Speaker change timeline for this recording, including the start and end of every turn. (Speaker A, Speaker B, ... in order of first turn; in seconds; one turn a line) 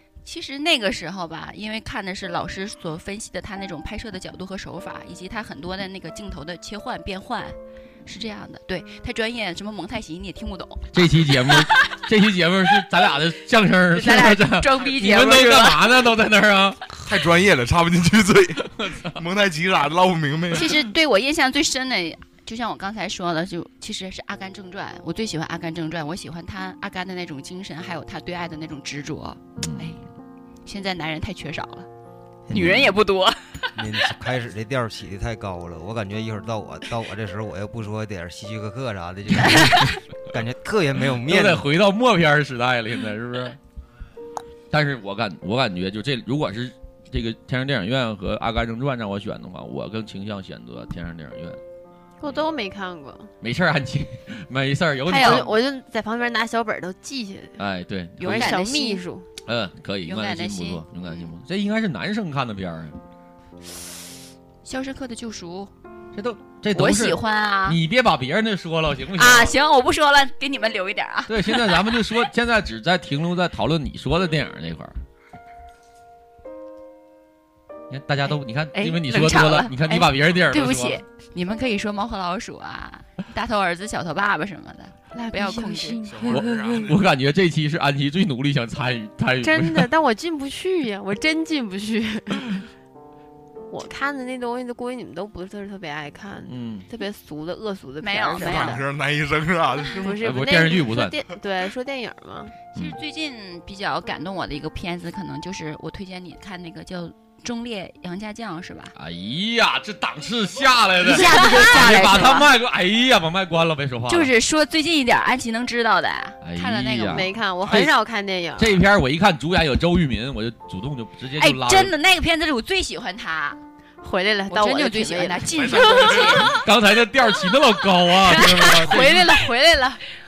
Speaker A: 0.2-12.0
Speaker B: 10.9-16.8
Speaker A: 13.9-15.8
Speaker C: 16.9-20.7
Speaker B: 18.7-19.2
Speaker A: 20.5-30.0
Speaker B: 29.6-30.1
Speaker A: 30.6-31.9
Speaker D: 32.5-32.9
Speaker A: 32.5-34.1
Speaker D: 33.8-41.7
Speaker A: 39.5-39.7
Speaker B: 41.2-43.6
Speaker B: 44.7-51.6
Speaker E: 52.2-53.3
Speaker B: 53.4-55.6
Speaker E: 55.1-57.6
Speaker A: 55.2-55.5
Speaker B: 57.6-58.6
Speaker A: 58.2-59.0
Speaker E: 58.2-59.3
Speaker B: 59.5-63.0
Speaker A: 60.0-60.8
Speaker A: 64.6-65.7
Speaker B: 66.1-69.5
Speaker A: 66.7-67.8
Speaker A: 69.2-71.9
Speaker B: 71.3-75.0
Speaker B: 77.9-81.0
Speaker A: 78.7-86.1
Speaker E: 85.1-86.8
Speaker C: 86.1-87.0
Speaker B: 86.3-89.9
Speaker E: 89.4-92.7
Speaker E: 93.7-98.9
Speaker B: 96.5-96.9
Speaker A: 98.0-98.8
Speaker C: 98.4-100.2
Speaker E: 99.9-102.5
Speaker B: 100.2-101.2
Speaker A: 102.7-108.9
Speaker B: 109.0-114.3
Speaker A: 111.0-112.5
Speaker E: 111.1-111.8
Speaker A: 114.1-117.3
Speaker B: 116.4-117.9
Speaker E: 117.1-118.8
Speaker B: 118.6-121.9
Speaker A: 121.4-123.6
Speaker E: 124.0-126.3
Speaker A: 124.5-126.6
Speaker C: 125.5-126.4
Speaker B: 126.4-129.3
Speaker E: 128.3-130.0